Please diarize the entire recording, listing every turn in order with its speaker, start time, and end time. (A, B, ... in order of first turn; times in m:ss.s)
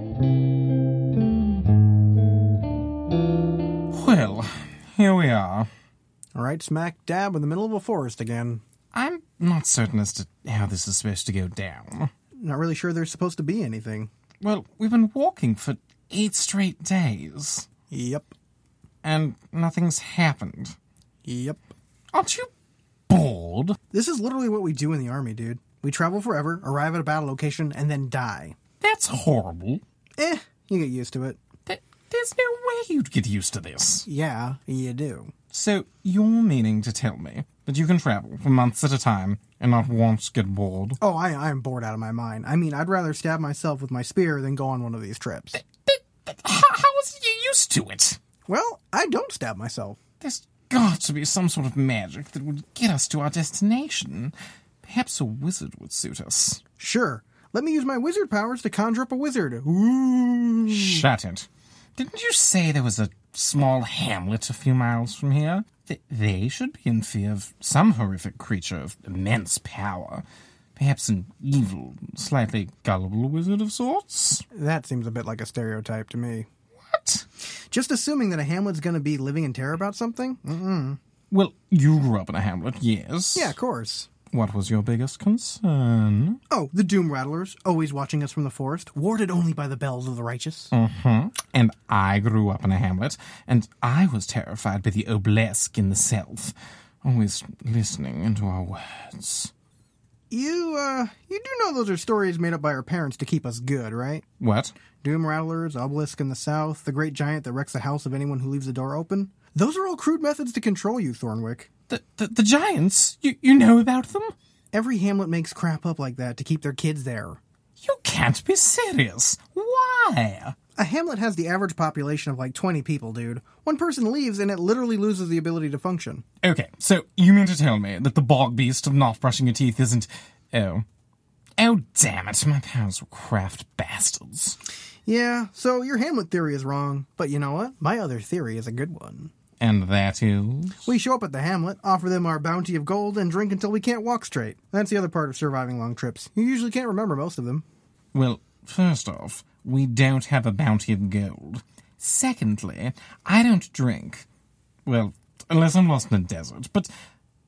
0:03.9-0:05.7 A
0:06.4-0:08.6 B
0:08.9-0:12.1 A
0:12.4-0:14.1 B
0:14.4-0:17.7 A
0:17.9-0:18.3 B
0:19.0-0:20.8 A
0:21.2-0:21.6 B
0:22.1-0:22.5 A
0:23.1-0:23.8 A
0:23.9-0:28.6 B
0:28.8-0:29.8 A
0:30.2-0:31.4 B
0:31.7-0:34.1 A
0:34.1-0:35.3 B
0:35.5-0:41.0 A
0:41.0-0:45.6 B
0:45.6-0:48.2 A
0:48.5-0:50.0 B
0:50.2-0:56.6 A
0:56.8-1:01.1 B
1:00.7-1:10.2 A
1:10.8-1:14.4 A
1:14.5-1:16.5 B
1:16.8-1:17.3 A
1:17.7-1:21.0 B
1:21.3-1:23.6 A
1:23.4-1:24.1 B
1:24.3-1:26.4 A
1:26.5-1:30.7 B
1:30.7-1:39.5 A
1:40.3-1:44.2 B
1:44.4-1:44.8 A
1:45.0-1:51.7 B
1:51.9-1:54.4 A
1:54.7-1:57.4 B
1:57.8-2:00.6 A
2:00.8-2:06.2 B
2:06.4-2:10.8 A
2:11.6-2:14.6 A
2:15.1-2:19.3 B
2:19.6-2:20.8 A
2:20.8-2:27.6 B
2:28.1-2:34.3 A
2:34.9-2:36.9 A